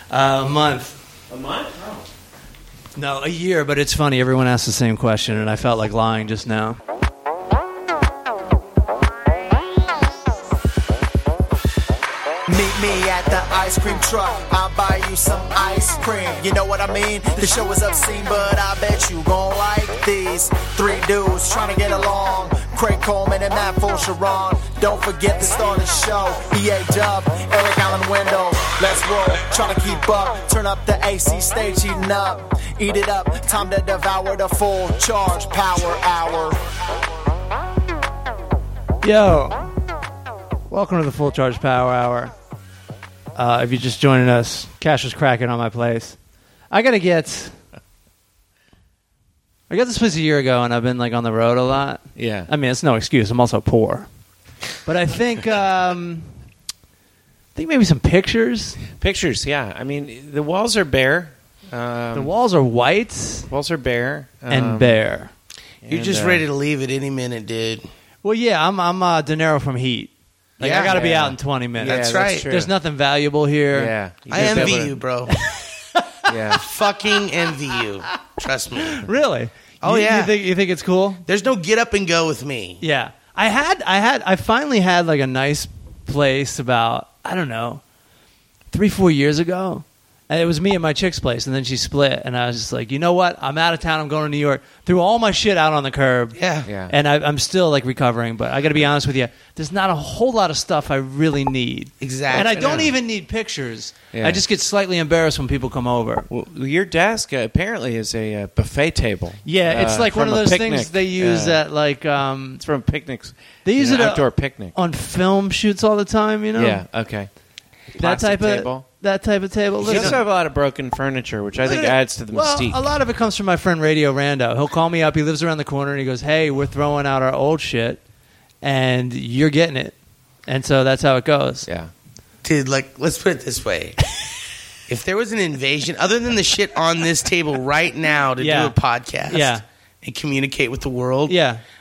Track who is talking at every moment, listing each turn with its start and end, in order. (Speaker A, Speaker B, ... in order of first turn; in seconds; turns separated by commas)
Speaker A: 0.1-0.9, Speaker B: 1.3-2.0, Speaker A: 3.0-6.8, Speaker C: 12.5-36.6, Speaker A: 39.0-39.7, Speaker A: 40.7-42.3, Speaker A: 43.3-46.1, Speaker A: 46.7-47.5, Speaker A: 49.7-54.1, Speaker B: 52.1-52.5, Speaker A: 54.9-56.3, Speaker A: 57.5-58.8, Speaker B: 58.9-62.3, Speaker A: 62.1-63.5, Speaker B: 63.5-65.0, Speaker A: 64.5-65.3, Speaker B: 65.8-66.4, Speaker D: 65.9-67.9, Speaker A: 68.2-74.8, Speaker D: 70.6-71.0, Speaker B: 70.8-72.7, Speaker D: 71.8-72.5, Speaker B: 73.7-75.0, Speaker D: 74.3-75.4, Speaker A: 75.5-76.1, Speaker B: 76.3-76.6, Speaker D: 76.5-79.0, Speaker A: 79.0-81.2, Speaker D: 79.8-80.4, Speaker D: 81.2-82.8, Speaker A: 82.8-87.8, Speaker A: 88.7-96.4, Speaker D: 96.3-96.7, Speaker B: 96.7-96.9, Speaker A: 96.9-106.3, Speaker D: 102.0-102.8, Speaker B: 102.3-103.0, Speaker B: 104.1-104.4, Speaker B: 106.3-111.6, Speaker A: 109.4-112.6, Speaker B: 112.6-114.7, Speaker A: 113.6-116.8, Speaker B: 116.5-117.3, Speaker B: 117.9-118.8, Speaker A: 118.0-120.2, Speaker B: 119.8-122.8, Speaker D: 119.9-120.1, Speaker A: 121.6-128.0, Speaker A: 128.6-129.9, Speaker A: 130.4-131.7, Speaker D: 132.4-134.0, Speaker D: 134.9-141.4, Speaker A: 138.4-138.7, Speaker A: 139.3-139.6, Speaker A: 141.3-141.6